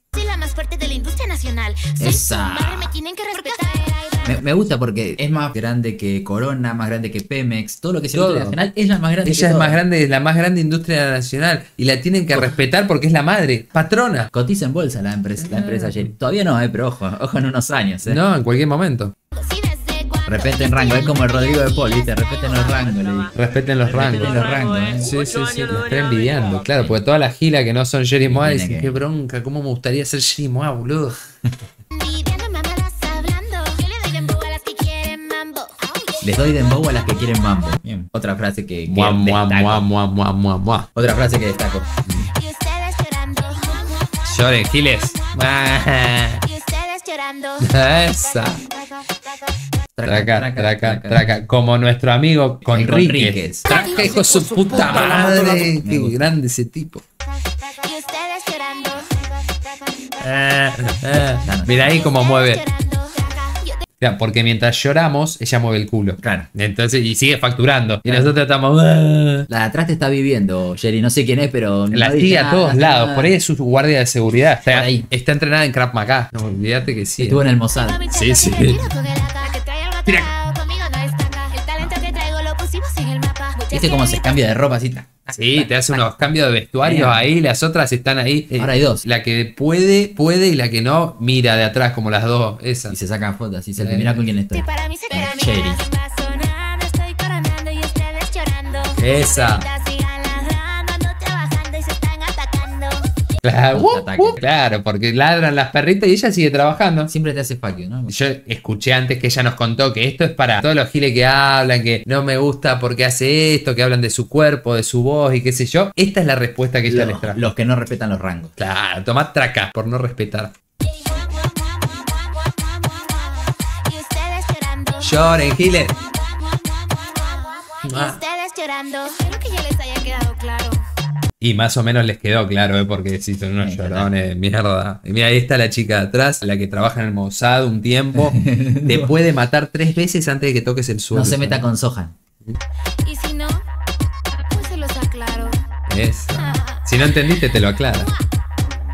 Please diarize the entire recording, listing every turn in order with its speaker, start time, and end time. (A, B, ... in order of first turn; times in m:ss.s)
0:00.1-0:04.4 A
0:02.0-0:02.9 B
0:04.2-0:09.8 B
0:08.1-0:08.6 C
0:09.2-0:14.3 C
0:12.3-0:12.6 B
0:14.3-0:18.2 B
0:15.4-0:16.1 C
0:18.0-0:19.1 C
0:19.3-0:23.3 A
0:20.3-0:23.3 B
0:23.3-0:24.4 C
0:23.8-0:25.1 B
0:25.0-0:31.2 C
0:28.2-0:29.0 B
0:31.9-0:36.4 A
0:36.2-0:39.8 B
0:38.9-0:40.9 C
0:40.9-0:41.8 B
0:42.3-0:44.2 A
0:44.2-0:46.4 C
0:46.4-0:47.7 A
0:47.6-0:48.6 C
0:49.9-0:51.3 B
0:50.0-0:57.0 C
0:52.6-0:56.2 B
0:53.7-0:55.4 A
0:57.7-0:59.2 A
1:00.2-1:02.6 C
1:01.3-1:02.0 B
1:01.8-1:03.8 A
1:04.0-1:09.5 C
1:06.2-1:06.5 B
1:08.0-1:08.3 B
1:09.5-1:13.3 B
1:11.9-1:17.4 C
1:14.6-1:15.0 B
1:17.2-1:18.0 B
1:17.7-1:24.4 A
1:18.1-1:18.9 C
1:20.0-1:20.3 C
1:23.7-1:26.0 B
1:25.3-1:33.0 C
1:26.8-1:27.3 B
1:28.5-1:29.0 B
1:32.9-1:35.8 B
1:33.8-1:34.2 C
1:34.5-1:43.1 A
1:38.9-1:39.7 C
1:43.4-1:47.1 C
1:43.7-1:44.4 B
1:47.1-1:48.2 B
1:48.1-1:57.4 C
1:56.9-1:58.5 B
1:58.6-2:00.5 C
2:00.8-2:10.8 A
2:05.0-2:05.9 C
2:07.8-2:08.2 C
2:11.4-2:21.6 C
2:13.6-2:14.1 B
2:18.1-2:19.1 B
2:21.1-2:22.1 B
2:23.0-2:23.6 A
2:24.5-2:25.6 A
2:25.9-2:28.1 C
2:26.4-2:27.3 A
2:27.9-2:28.2 A